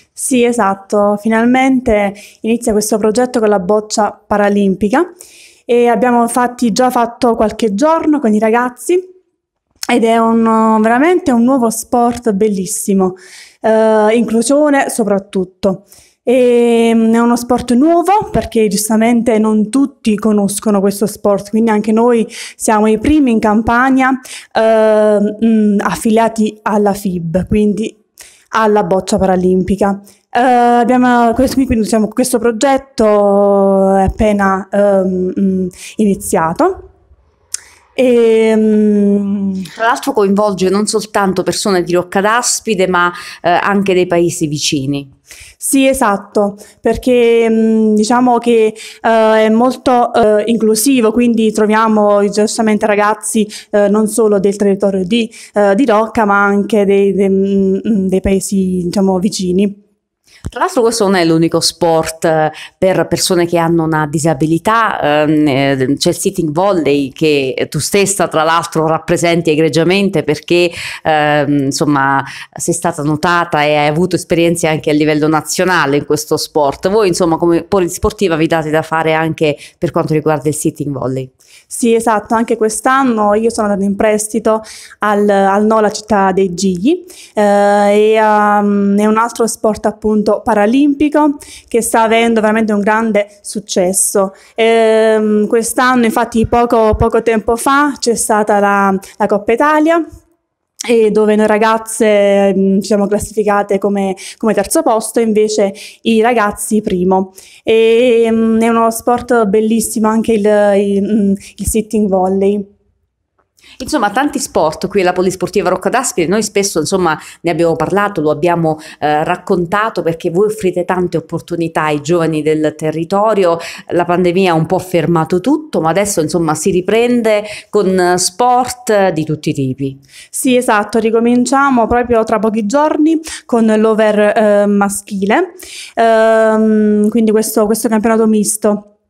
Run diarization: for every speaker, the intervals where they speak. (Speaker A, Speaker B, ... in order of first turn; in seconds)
Speaker A: 0.1-5.1, 5.7-9.1, 9.9-28.0, 28.5-36.9, 38.0-39.6, 45.6-59.8, 81.7-100.0, 100.9-112.7, 130.3-138.9
Speaker B: 39.8-45.1, 60.5-81.3, 113.8-130.0